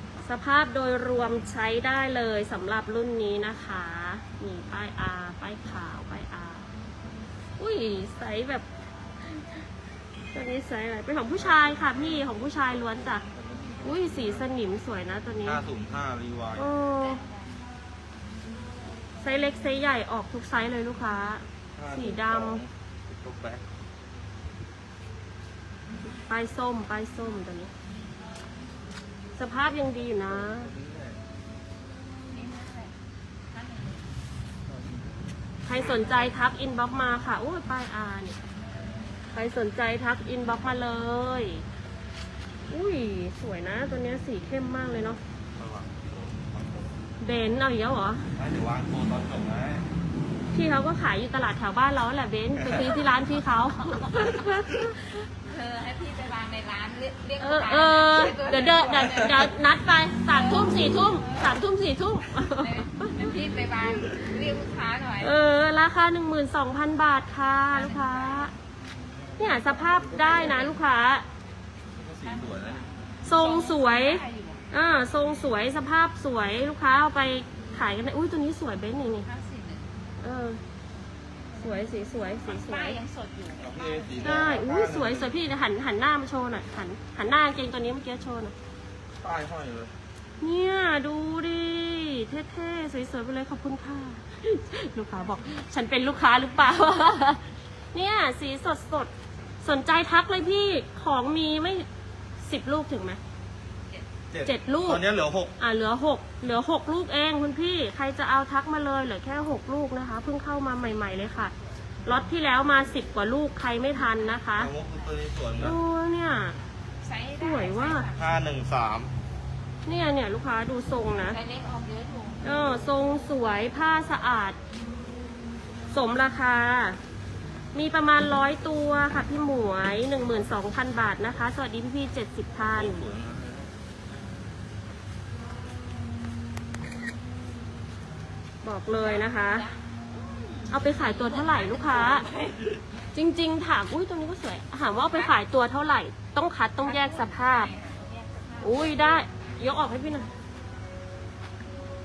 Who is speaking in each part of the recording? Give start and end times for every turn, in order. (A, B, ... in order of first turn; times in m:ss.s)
0:00.2-0:06.7 A
0:07.6-0:08.6 A
0:09.2-0:09.6 A
0:10.3-0:13.2 A
0:11.4-0:14.5 B
0:13.8-0:15.6 A
0:15.4-0:16.7 B
0:16.6-0:17.2 A
0:17.0-0:17.6 C
0:19.2-0:22.6 A
0:21.7-0:23.6 B
0:26.2-0:27.7 A
0:29.4-0:30.7 A
0:30.3-0:31.2 B
0:32.3-0:33.0 C
0:33.5-0:34.2 C
0:34.7-0:35.2 B
0:35.6-0:38.4 A
0:35.7-0:36.4 C
0:38.7-0:39.0 C
0:39.3-0:41.6 A
0:42.7-0:45.2 A
0:45.5-0:46.9 B
0:47.2-0:48.4 A
0:48.4-0:49.9 B
0:50.5-0:55.3 A
0:52.6-0:53.0 B
0:55.4-0:59.5 C
0:57.4-1:03.3 A
1:00.2-1:01.6 C
1:02.3-1:05.4 C
1:04.0-1:04.3 A
1:05.2-1:08.5 A
1:07.7-1:08.5 C
1:09.3-1:10.7 B
1:09.4-1:11.2 A
1:10.2-1:10.7 C
1:11.9-1:12.9 B
1:12.2-1:14.6 C
1:13.2-1:19.3 A
1:19.2-1:20.0 C
1:20.2-1:20.6 A
1:21.5-1:24.5 C
1:21.6-1:23.0 A
1:23.6-1:25.3 B
1:24.2-1:28.5 A
1:29.2-1:29.9 B
1:30.4-1:39.1 A
1:35.2-1:35.5 C
1:39.6-1:41.9 A
1:42.4-1:43.2 A
1:44.3-1:45.6 B
1:44.4-1:45.0 A
1:45.6-1:51.5 A
1:50.8-1:52.3 C
1:52.0-1:54.7 A
1:54.0-1:55.2 C
1:54.6-1:55.8 B
1:55.6-1:56.6 A
1:57.0-1:58.6 C
1:57.4-1:58.1 A
1:58.2-1:59.1 B
1:59.8-2:01.4 A
2:01.2-2:02.5 C
2:02.4-2:04.6 A
2:05.9-2:07.0 A
2:07.7-2:13.1 A
2:12.7-2:13.7 B
2:18.6-2:19.7 A
2:18.9-2:22.8 C
2:20.7-2:22.2 A
2:23.1-2:27.7 A
2:25.0-2:25.4 C
2:26.8-2:29.3 C
2:28.6-2:30.3 A